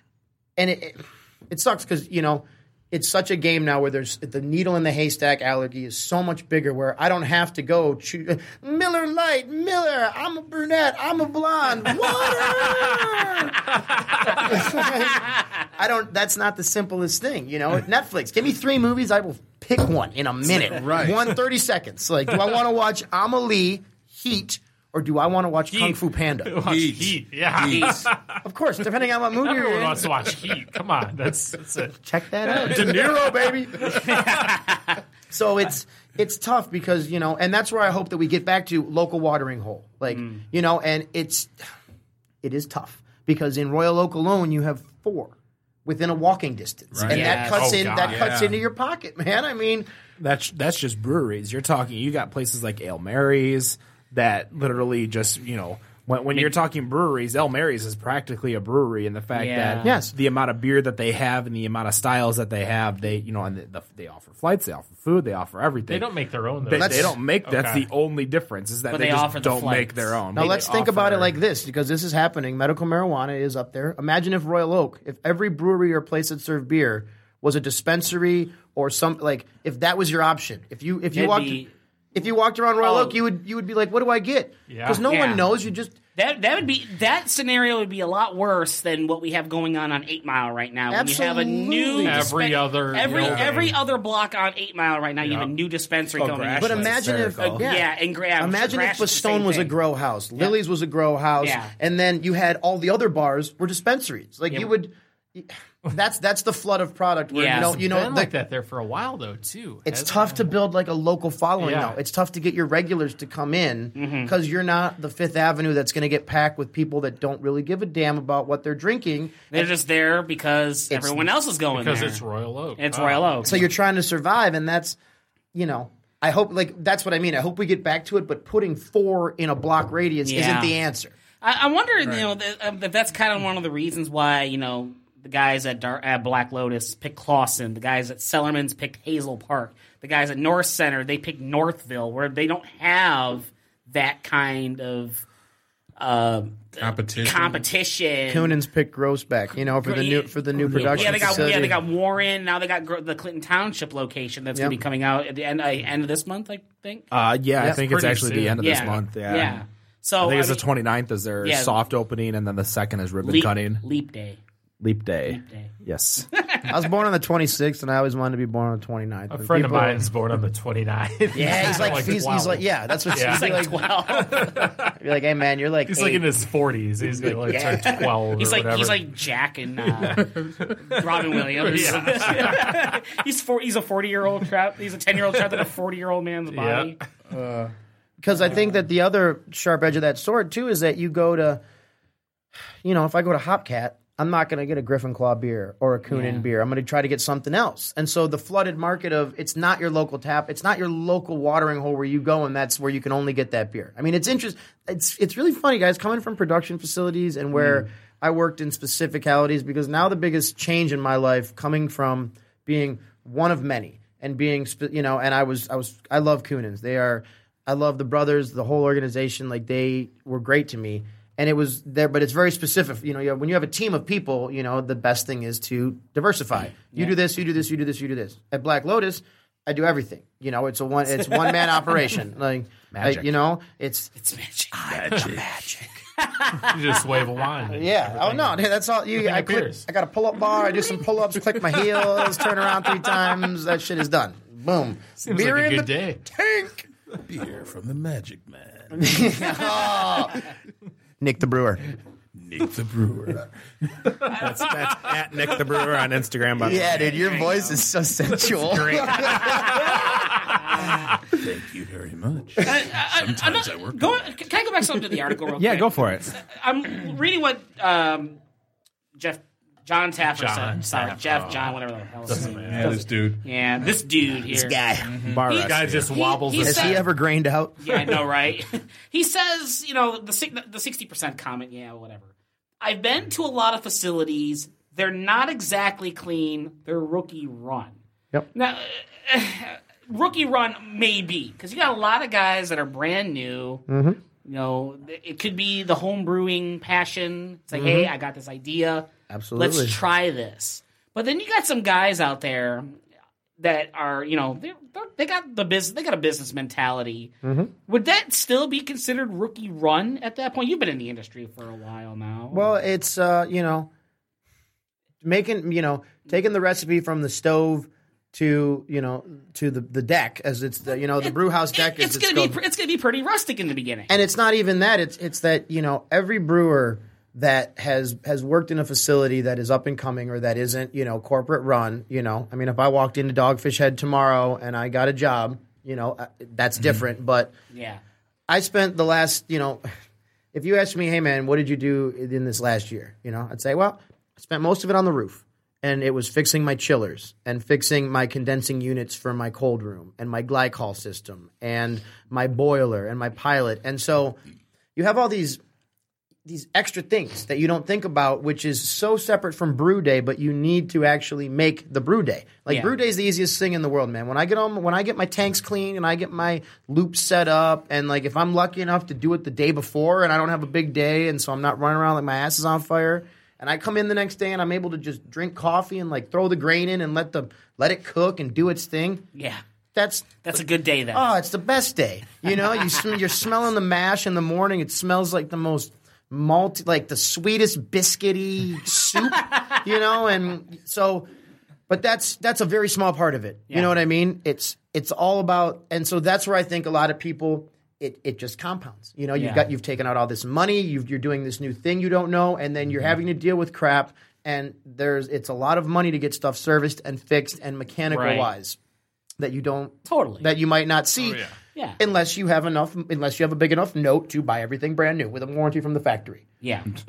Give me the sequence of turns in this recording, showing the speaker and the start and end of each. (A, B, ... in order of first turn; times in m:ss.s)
0:00.6-0:26.7 A
0:20.5-0:21.3 B
0:25.7-0:28.4 C
0:26.6-0:28.1 B
0:27.6-0:28.1 D
0:28.4-0:30.1 A
0:29.4-0:34.0 C
0:32.0-0:34.2 A
0:32.5-0:33.0 D
0:33.9-0:35.0 D
0:35.3-0:41.5 A
0:40.1-0:40.4 D
0:42.4-0:45.4 A
0:45.9-0:49.9 A
0:46.9-0:47.5 B
0:47.1-0:47.9 D
0:47.2-0:48.3 C
0:48.0-0:48.6 B
0:50.2-1:06.1 E
0:59.3-1:00.0 D
0:59.8-1:00.1 A
1:05.9-1:07.9 C
1:06.7-1:11.3 E
1:06.7-1:07.2 A
1:08.9-1:10.6 D
1:10.4-1:26.0 A
1:21.1-1:21.7 D
1:22.8-1:23.2 D
1:24.7-1:25.0 C
1:25.1-1:25.4 D
1:26.2-1:39.7 D
1:30.9-1:32.4 A
1:32.0-1:33.8 C
1:35.2-1:35.5 C
1:36.2-1:37.7 E
1:36.6-1:48.3 A
1:41.4-1:41.7 D
1:47.3-1:47.8 D
1:47.5-1:50.5 C
1:49.9-1:59.7 A
1:51.6-1:52.0 C
1:54.0-1:54.3 D
1:59.5-2:02.2 D
2:00.9-2:01.3 A
2:01.7-2:03.7 C
2:02.8-2:03.6 D
2:03.4-2:05.0 A
2:05.6-2:11.1 A
2:10.2-2:10.8 D
2:11.4-2:25.2 D
2:26.0-2:28.6 D
2:26.8-2:27.6 B
2:28.3-2:31.8 A
2:29.8-2:37.0 D
2:30.6-2:31.8 E
2:37.1-2:39.6 E
2:37.8-2:38.8 C
2:38.6-2:40.6 D
2:40.2-2:43.8 E
2:41.4-2:41.8 D
2:43.2-2:44.4 D
2:44.8-2:46.3 E
2:45.3-2:45.7 D
2:46.4-2:46.7 D
2:46.7-2:50.1 A
2:49.3-2:54.9 C
2:51.3-2:56.2 A
2:51.3-2:52.1 D
2:53.1-2:54.5 D
2:55.9-2:59.1 C
2:57.2-2:57.8 A
2:57.5-3:07.0 D
3:00.0-3:00.8 B
3:01.3-3:03.0 C
3:06.5-3:07.0 C
3:07.3-3:07.7 B
3:08.2-3:11.6 A
3:12.8-3:54.1 A
3:16.1-3:16.5 D
3:51.2-3:52.0 D
3:52.9-3:53.3 E
3:54.2-3:54.8 D
3:54.7-3:56.0 A
3:55.0-3:55.4 B
3:56.2-3:56.9 D
3:56.6-3:58.6 C
3:57.7-4:06.9 A
3:59.1-3:59.9 C
4:05.2-4:06.2 C
4:07.3-4:09.8 B
4:09.0-4:10.5 A
4:11.2-4:11.9 A
4:12.4-4:14.3 B
4:14.3-4:17.1 E
4:16.6-4:20.2 A
4:17.0-4:17.8 D
4:18.4-4:20.2 C
4:20.6-4:21.2 D
4:20.8-4:24.2 B
4:22.6-4:28.4 D
4:25.6-4:26.3 E
4:29.2-4:34.8 D
4:30.4-4:31.8 C
4:32.3-4:33.0 C
4:32.3-4:33.4 B
4:34.5-4:35.1 A
4:35.0-4:36.1 E
4:35.0-4:35.4 B
4:35.5-4:37.0 D
4:35.5-4:37.1 C
4:36.6-4:37.8 A
4:37.8-4:48.0 D
4:48.5-4:53.8 D
4:53.9-4:54.2 A
4:54.4-5:03.0 D
4:57.7-4:58.1 A
4:59.3-5:00.0 A
5:03.6-5:07.3 D
5:07.4-5:07.7 A
5:07.9-5:12.7 D
5:12.5-5:13.9 A
5:15.2-5:22.6 A
5:21.2-5:24.1 D
5:24.1-5:37.5 A
5:37.7-5:38.0 D
5:38.5-5:39.8 A
5:40.5-5:54.4 A
5:55.0-5:55.6 A
5:56.5-6:19.2 A
6:19.4-6:19.6 D
6:20.0-6:20.4 A
6:20.4-6:21.2 D
6:21.1-6:31.3 A
6:31.9-6:48.8 A
6:39.4-6:39.7 D
6:48.1-6:48.5 D
6:49.4-6:51.4 A
6:50.1-6:50.5 D
6:51.2-6:51.6 C
6:52.0-6:56.4 A
6:56.6-6:56.9 D